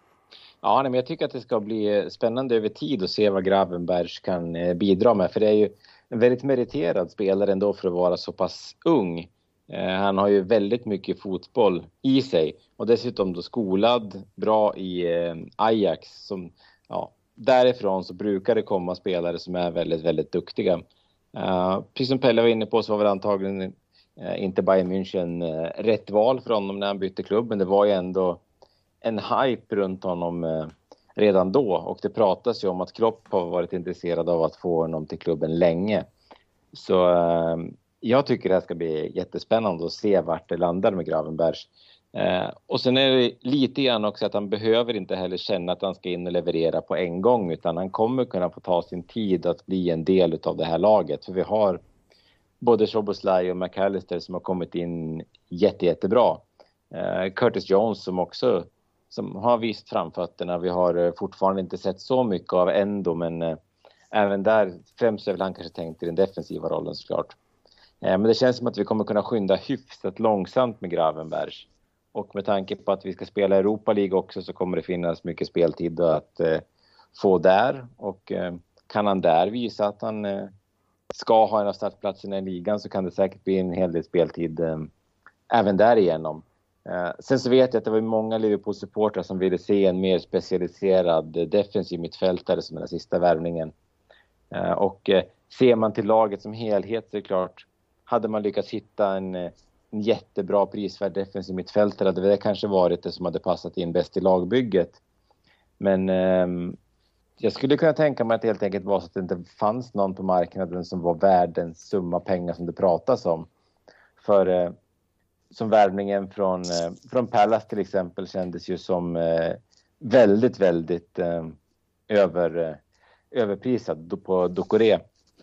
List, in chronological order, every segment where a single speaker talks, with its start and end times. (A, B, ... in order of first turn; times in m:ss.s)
0:00.6-0:20.8 A
0:21.3-0:28.4 A
0:29.0-0:36.1 A
0:36.7-0:51.8 A
0:52.6-1:03.6 A
1:04.1-1:07.3 A
1:08.0-1:20.5 A
1:21.1-1:24.9 A
1:25.5-1:33.7 A
1:34.5-1:45.0 A
1:45.8-1:46.8 A
1:47.4-1:53.5 A
1:54.2-1:54.7 A
1:55.5-2:01.6 A
2:02.1-2:02.8 A
2:03.3-2:05.0 A